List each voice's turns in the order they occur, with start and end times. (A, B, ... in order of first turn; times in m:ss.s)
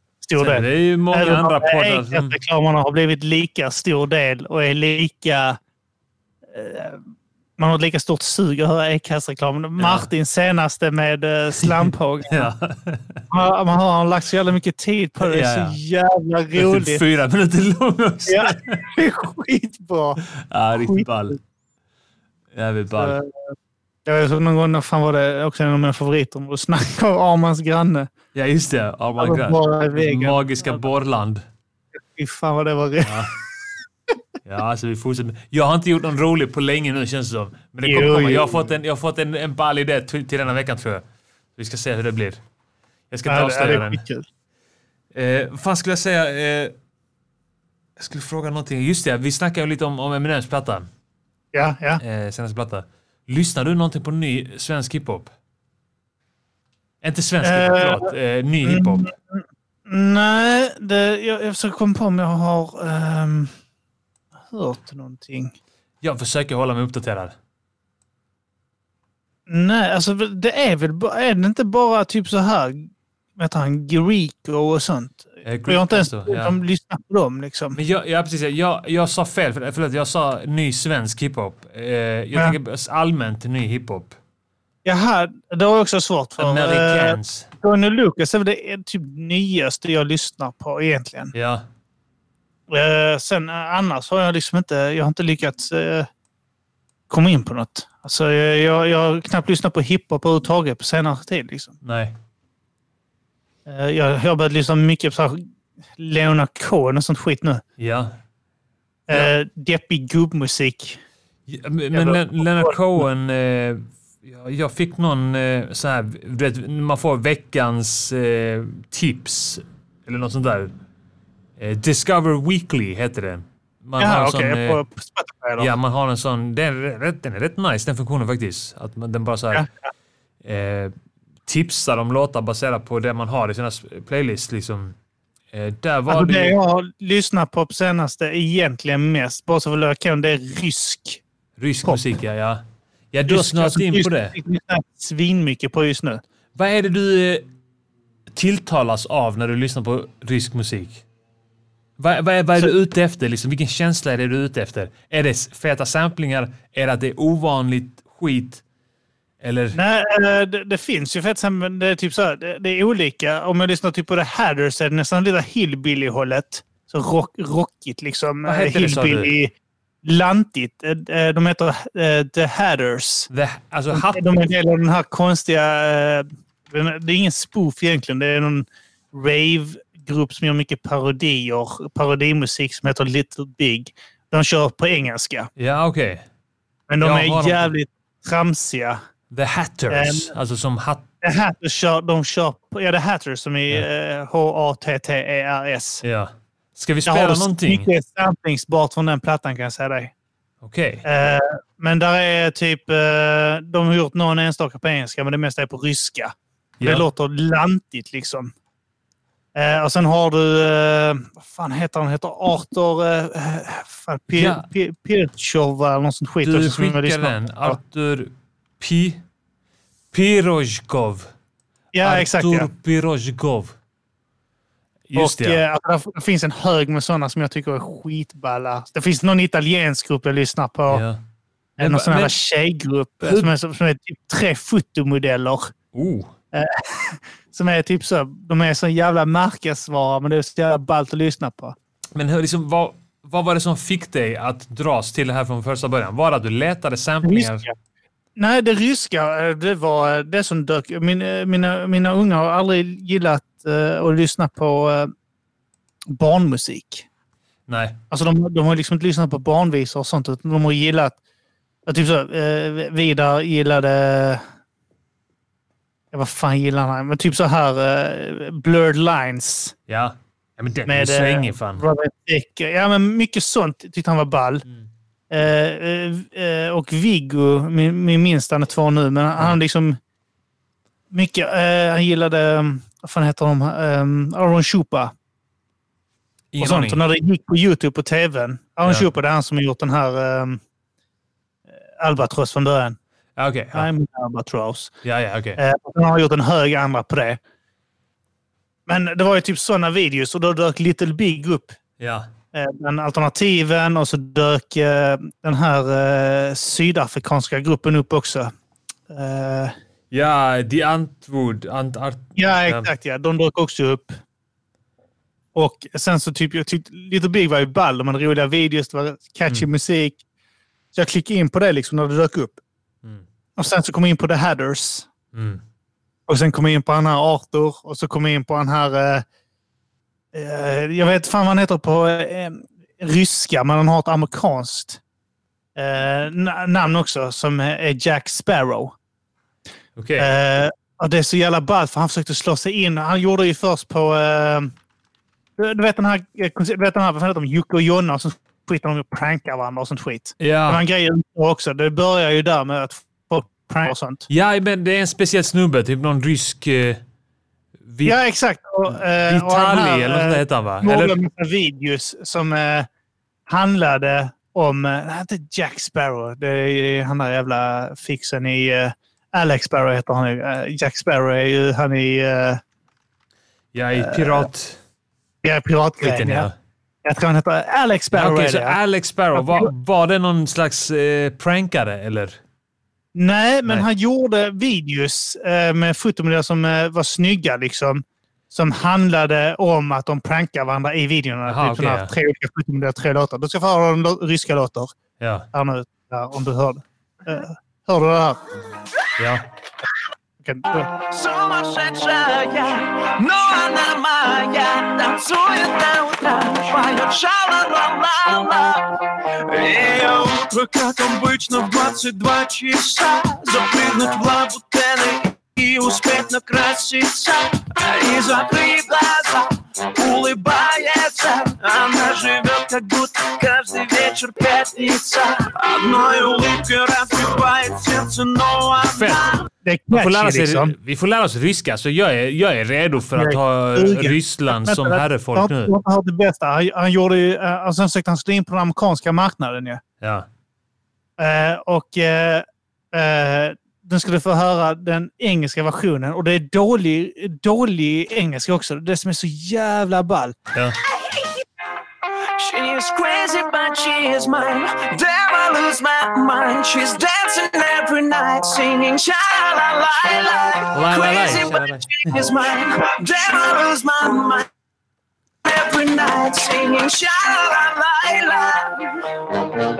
0:00.2-0:05.6 A
0:00.4-0:02.4 B
0:06.5-0:07.0 A
0:07.6-0:12.5 A
0:09.8-0:10.1 B
0:11.6-0:13.2 B
0:13.3-0:17.0 A
0:15.2-0:15.8 B
0:16.6-0:18.9 B
0:18.2-0:20.2 A
0:20.4-0:21.4 B
0:20.7-0:21.4 A
0:22.5-0:23.2 B
0:23.0-0:23.3 A
0:24.0-0:28.1 A
0:28.3-0:31.4 B
0:29.2-0:30.8 A
0:32.0-0:33.2 A
0:33.0-0:33.3 B
0:34.4-0:41.0 B
0:37.8-0:38.6 A
0:41.6-0:42.4 B
0:43.1-0:44.0 B
0:43.3-0:44.2 A
0:45.1-0:46.7 B
0:48.0-0:50.9 B
0:51.5-0:52.0 A
0:52.0-0:55.3 B
0:57.0-0:59.1 B
0:57.4-0:58.1 A
0:58.6-1:03.5 A
1:04.5-1:05.5 A
1:06.0-1:07.3 B
1:09.5-1:17.8 A
1:15.4-1:16.6 B
1:17.7-1:24.2 B
1:24.8-1:31.3 A
1:26.4-1:27.5 B
1:31.3-1:31.6 B
1:32.7-1:36.1 A
1:37.1-1:41.7 A
1:41.8-1:42.1 B
1:43.6-1:45.4 A
1:46.0-1:47.6 A
1:47.8-1:48.1 B
1:49.1-1:51.0 A
1:51.5-2:00.7 B
1:51.9-1:52.8 A
2:01.6-2:04.8 B
2:04.0-2:05.7 A
2:05.6-2:09.6 B
2:09.5-2:09.9 A
2:10.4-2:10.9 B
2:11.4-2:14.9 B
2:15.5-2:16.6 B
2:16.1-2:21.2 A
2:21.6-2:22.6 B
2:23.1-2:24.4 B
2:23.3-2:26.2 A
2:26.5-2:27.4 B
2:28.3-2:31.0 B
2:32.0-2:38.6 B
2:39.4-2:39.8 B
2:39.7-2:53.3 A
2:48.4-2:49.3 B
2:53.3-2:54.2 B
2:53.9-3:05.5 A
3:05.6-3:06.2 B
3:06.9-3:09.0 A
3:07.0-3:07.7 B
3:09.3-3:11.0 B
3:09.9-3:10.3 A
3:11.2-3:16.0 A
3:16.0-3:17.9 B
3:17.0-3:20.1 A
3:20.6-3:21.0 B
3:21.0-3:28.5 A
3:26.8-3:27.0 B
3:29.5-3:37.8 A
3:34.4-3:34.6 B
3:36.4-3:39.2 B
3:40.1-3:41.3 B
3:41.9-3:42.7 A
3:42.0-3:43.7 B
3:45.1-3:45.6 B
3:45.1-3:51.0 A
3:50.9-3:51.2 B
3:51.8-3:52.3 B
3:51.8-3:55.7 A
3:53.2-3:53.5 B
3:55.9-3:56.3 B
3:56.5-4:01.8 A
4:02.1-4:07.7 B
4:07.2-4:07.7 A
4:08.4-4:15.1 A
4:16.1-4:17.1 A
4:17.7-4:18.0 B
4:18.1-4:21.2 A
4:21.8-4:24.4 A
4:26.1-4:29.7 A
4:29.9-4:31.8 B
4:30.8-4:34.6 A
4:35.3-4:40.0 A
4:41.1-4:45.1 A
4:46.5-4:47.0 B
4:46.6-4:50.6 A
4:51.9-4:53.0 A
4:53.4-4:53.9 B
4:53.7-4:54.9 A
4:55.0-4:55.6 B
4:55.6-4:57.4 A
4:58.9-5:01.8 A
5:02.0-5:02.3 B
5:02.5-5:08.5 A
5:09.1-5:09.7 A
5:10.1-5:12.9 B
5:12.4-5:14.2 A
5:15.5-5:20.2 A
5:20.9-5:22.6 A
5:23.6-5:25.1 A
5:25.3-5:25.6 B
5:26.3-5:29.2 A
5:30.3-5:35.0 A
5:35.8-5:38.9 A
5:40.0-5:40.3 B
5:40.2-5:44.7 A
5:45.6-5:54.3 A
5:50.4-5:50.8 B
5:54.3-5:57.0 B
5:57.8-5:58.2 B
5:58.0-6:02.9 A
5:58.9-6:01.2 B
6:03.5-6:12.6 A
6:13.7-6:14.8 B
6:14.0-6:14.5 A
6:15.4-6:16.5 A
6:16.0-6:16.5 B
6:17.0-6:18.8 A
6:18.1-6:22.4 B
6:19.3-6:19.7 A
6:23.1-6:35.0 A
6:31.4-6:32.1 B
6:35.2-6:35.5 B
6:35.5-6:38.4 A
6:39.2-6:39.4 B
6:40.4-6:40.9 A
6:40.9-7:09.5 C
7:08.9-7:09.2 B
7:09.6-7:10.7 A
7:09.9-7:15.7 B
7:13.1-7:19.8 A
7:20.0-7:20.3 B
7:21.2-7:30.4 A
7:31.1-7:31.3 C
7:32.4-7:44.5 C
7:40.7-7:42.1 B
7:45.4-7:49.4 C